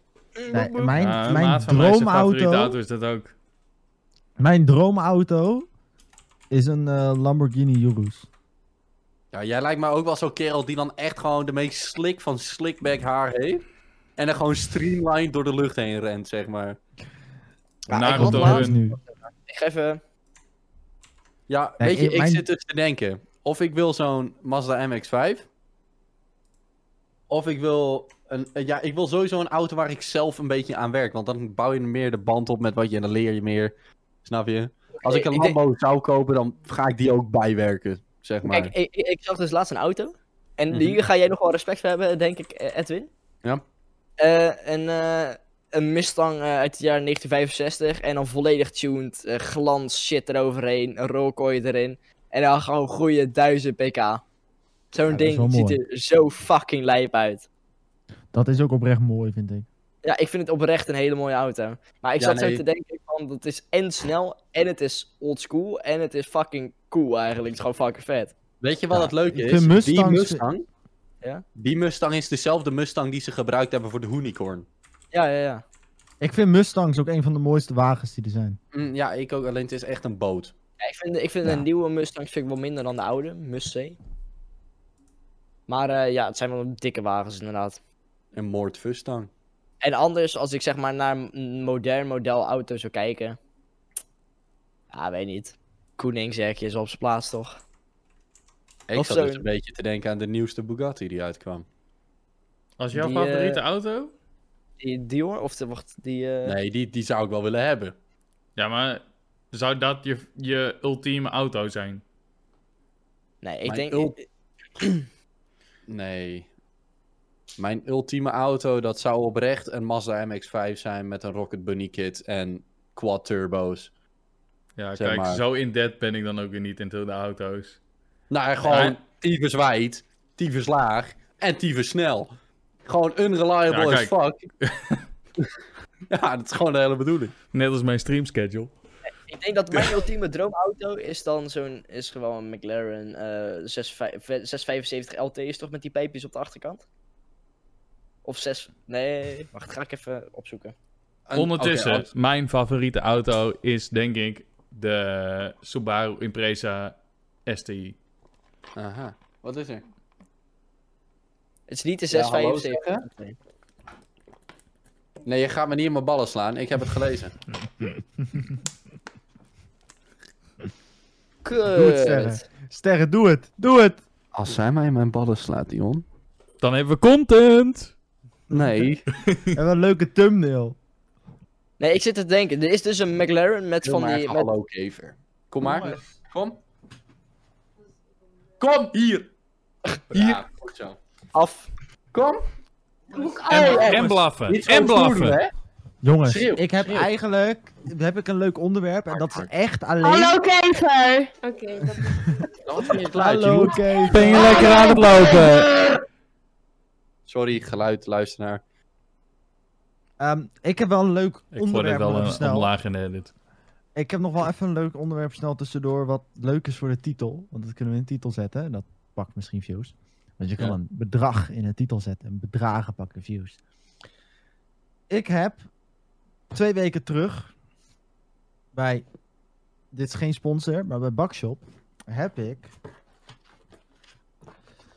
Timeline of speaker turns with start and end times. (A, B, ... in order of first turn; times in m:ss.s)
0:00.4-0:01.0 A
0:00.5-0:02.8 B
0:01.0-0:03.3 C
0:04.4-0:05.7 B
0:06.5-0:08.3 B
0:09.3-0:13.6 D
0:14.2-0:16.8 D
0:17.9-0:20.0 A
0:17.9-0:18.8 C
0:18.1-0:19.0 B
0:21.5-0:25.5 D
0:21.8-0:22.4 B
0:27.3-0:38.7 D
0:35.0-0:35.6 A
0:38.4-0:43.1 A
0:40.7-0:41.0 D
0:44.2-0:54.2 A
0:54.9-0:57.5 A
0:55.1-0:55.8 B
0:58.3-0:59.7 B
1:00.0-1:08.3 A
1:02.2-1:02.6 D
1:08.6-1:10.6 D
1:08.9-1:10.4 B
1:11.6-1:14.7 D
1:15.1-1:15.6 A
1:16.2-1:18.6 B
1:18.7-1:20.5 D
1:20.8-1:24.0 A
1:25.7-1:27.8 A
1:28.3-1:29.3 D
1:29.8-1:33.4 A
1:34.9-1:37.6 A
1:38.9-1:41.7 D
1:39.0-1:39.4 A
1:42.8-1:44.1 C
1:42.9-1:43.6 A
1:44.8-1:46.6 A
1:46.4-1:48.0 D
1:48.6-1:52.0 C
1:53.4-1:54.2 A
1:53.6-1:54.2 D
1:54.8-1:55.1 A
1:55.9-1:56.5 D
1:57.6-2:03.9 D
2:04.8-2:07.8 C
2:05.0-2:05.4 D
2:08.3-2:12.3 D
2:08.6-2:09.0 C
2:12.9-2:14.4 D
2:13.7-2:15.0 C
2:16.1-2:17.3 D
2:17.5-2:18.7 C
2:19.3-2:26.8 A
2:28.2-2:30.7 A
2:31.3-2:32.1 D
2:31.4-2:37.0 C
2:37.5-2:38.0 C
2:38.8-2:39.8 D
2:41.7-2:43.4 A
2:42.1-2:43.1 D
2:45.3-2:47.3 D
2:51.4-2:52.4 A
2:51.7-2:54.0 B
2:54.3-2:56.0 D
2:56.6-2:57.9 C
2:58.5-2:58.9 B
2:58.5-2:59.0 D
2:59.2-2:59.6 C
2:59.5-3:00.8 B
3:01.8-3:04.5 A
3:03.8-3:06.6 D
3:05.6-3:06.0 B
3:08.6-3:09.3 D
3:09.9-3:10.4 A
3:10.1-3:11.0 D
3:11.3-3:11.7 A
3:12.1-3:12.4 D
3:13.4-3:15.5 D
3:13.5-3:15.4 C
3:16.0-3:20.4 B
3:16.2-3:17.1 D
3:19.2-3:19.5 D
3:20.0-3:22.4 E
3:22.0-3:22.4 B
3:22.6-3:25.0 D
3:23.0-3:25.0 B
3:24.1-3:25.7 C
3:24.3-3:25.6 E
3:27.3-3:28.6 D
3:30.2-3:32.7 B
3:31.5-3:33.3 C
3:34.0-3:43.6 B
3:45.1-3:45.6 B
3:46.5-3:47.5 B
3:48.7-3:49.0 B
3:49.9-3:52.7 B